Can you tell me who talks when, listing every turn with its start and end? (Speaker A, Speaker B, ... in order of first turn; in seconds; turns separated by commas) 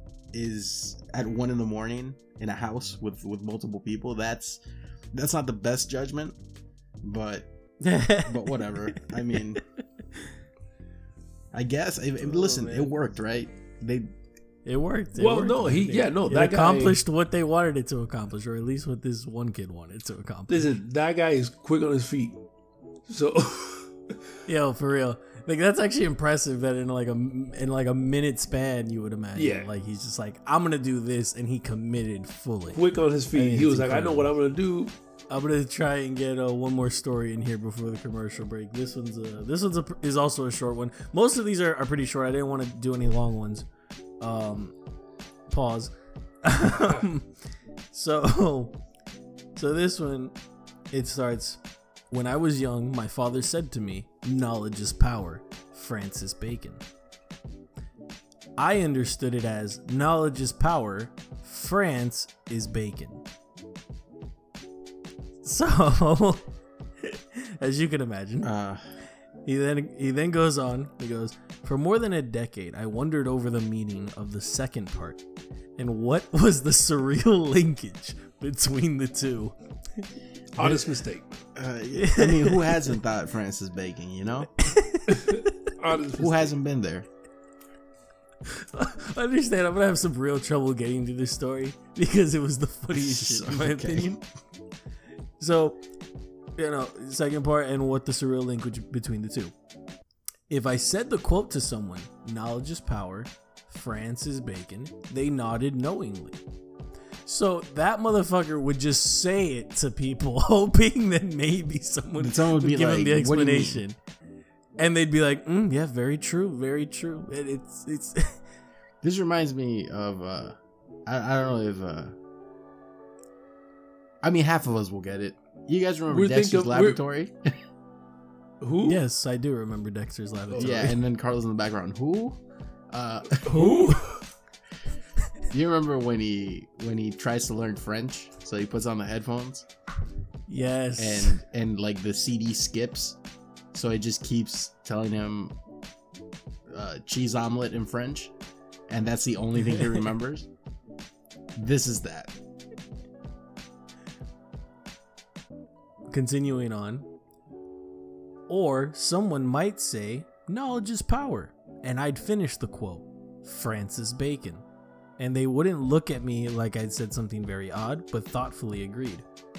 Speaker A: 0.3-4.6, Speaker A: 5.1-6.4, Speaker A: 7.0-7.5, Speaker B: 7.8-9.1, Speaker A: 8.2-9.6, Speaker A: 11.5-14.1, Speaker B: 12.2-12.9, Speaker B: 14.6-20.7, Speaker C: 15.2-17.0, Speaker C: 20.5-22.4, Speaker C: 23.1-24.1, Speaker B: 24.4-32.8, Speaker C: 29.4-29.7, Speaker C: 32.7-34.9, Speaker B: 33.3-34.3, Speaker B: 35.3-43.7, Speaker B: 44.2-44.7, Speaker B: 45.5-45.9, Speaker B: 46.4-47.3, Speaker B: 47.9-48.8, Speaker B: 49.5-50.3, Speaker B: 50.9-51.6, Speaker B: 52.1-56.8, Speaker B: 58.6-63.2, Speaker B: 65.4-66.4, Speaker B: 67.0-68.5, Speaker A: 68.4-68.8, Speaker B: 69.4-75.2, Speaker B: 75.8-80.1, Speaker C: 80.6-81.4, Speaker A: 81.5-84.5, Speaker B: 81.9-82.9, Speaker B: 84.6-85.7, Speaker C: 85.1-86.5, Speaker A: 86.2-87.1, Speaker B: 88.5-94.2, Speaker A: 92.9-94.2, Speaker B: 95.4-95.8, Speaker B: 96.6-99.5, Speaker B: 100.5-106.4, Speaker B: 107.2-114.0, Speaker A: 112.2-113.8, Speaker B: 114.8-118.4, Speaker A: 119.0-122.1, Speaker A: 124.2-127.5, Speaker C: 126.1-127.0, Speaker C: 128.6-129.0, Speaker B: 128.8-131.0, Speaker C: 130.5-130.9, Speaker A: 130.6-132.4, Speaker A: 132.9-133.8, Speaker C: 133.4-134.2, Speaker B: 133.6-133.9, Speaker A: 135.5-139.7, Speaker B: 140.5-141.4, Speaker A: 141.0-143.2, Speaker A: 143.7-145.5, Speaker A: 146.7-148.3, Speaker A: 148.9-150.5, Speaker A: 151.6-152.3, Speaker B: 156.1-157.1, Speaker B: 158.5-164.6, Speaker B: 165.2-169.2